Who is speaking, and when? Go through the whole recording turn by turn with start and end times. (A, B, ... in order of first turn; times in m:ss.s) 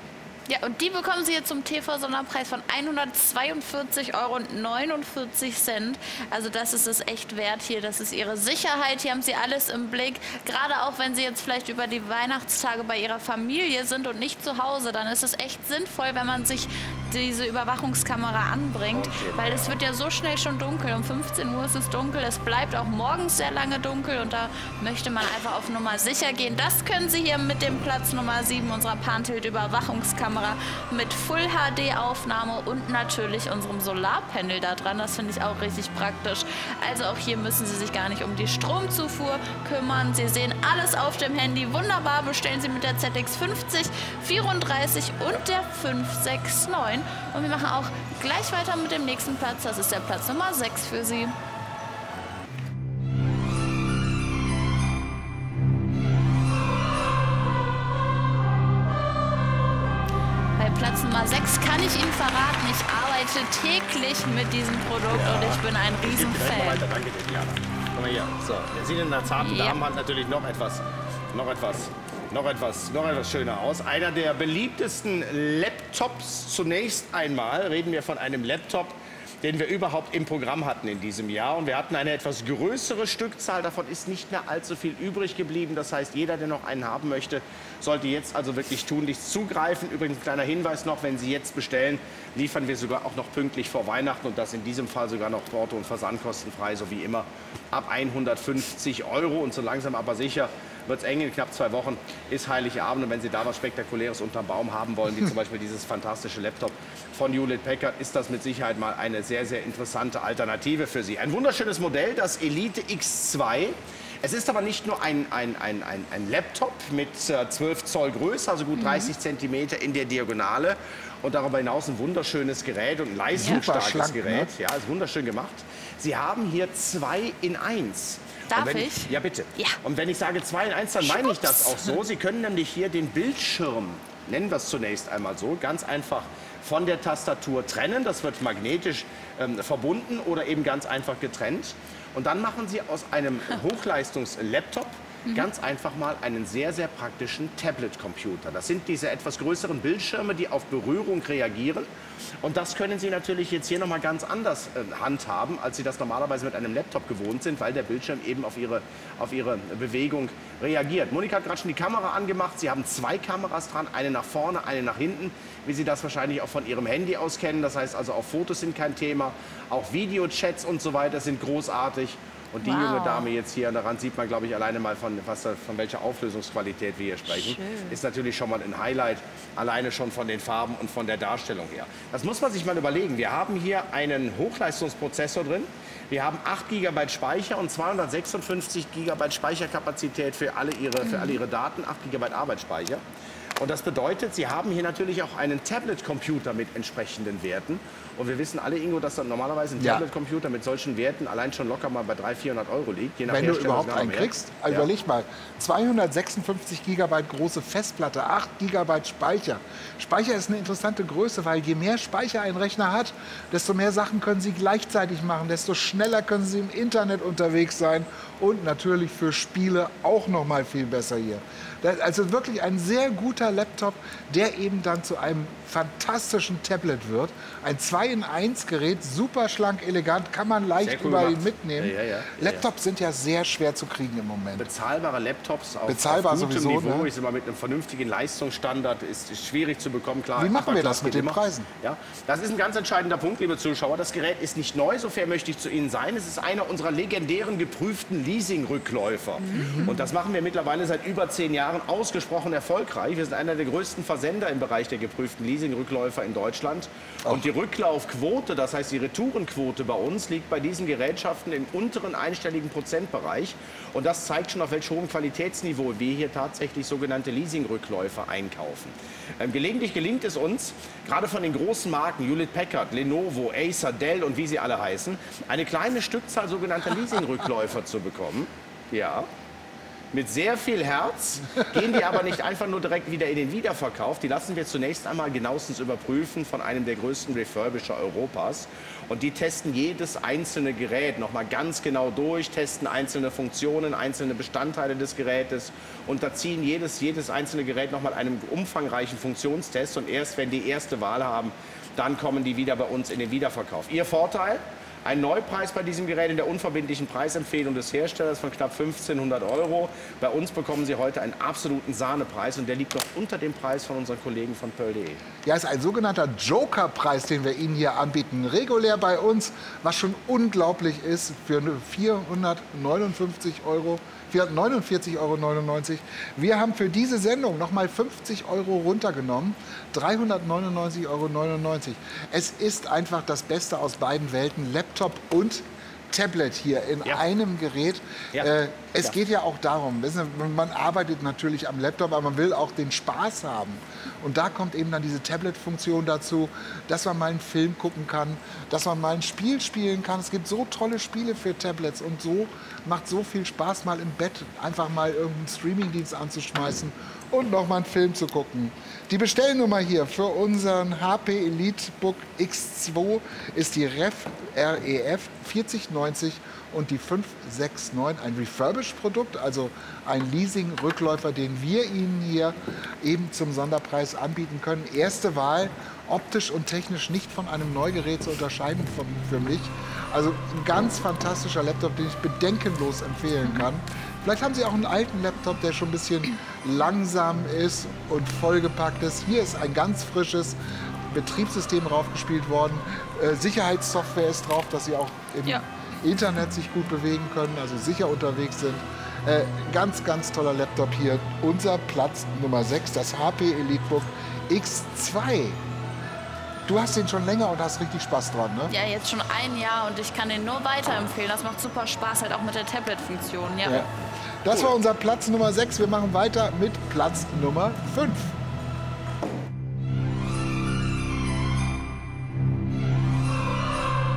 0:00.5-0:51.4 A
0:18.9-0:19.8 B
1:00.6-1:06.8 A
1:05.1-2:31.9 B
1:09.4-1:09.8 A
1:58.8-1:59.1 A
2:03.4-2:04.5 C
2:08.5-2:09.8 A
2:11.0-2:12.0 A
2:32.4-3:13.0 B
2:52.6-2:53.3 A
2:57.3-2:58.0 A
3:11.0-3:11.4 A
3:13.6-3:24.9 B
3:19.8-3:20.0 C
3:23.3-3:54.7 C
3:50.8-3:52.7 B
3:54.6-4:39.3 B
3:55.9-3:57.1 C
4:00.4-4:01.7 C
4:09.4-4:10.0 A
4:09.7-4:09.9 C
4:40.1-5:15.2 B
5:15.4-6:30.6 C
6:31.1-6:45.6 C
6:46.6-6:48.7 C
6:48.7-6:53.9 A
6:54.4-6:58.3 C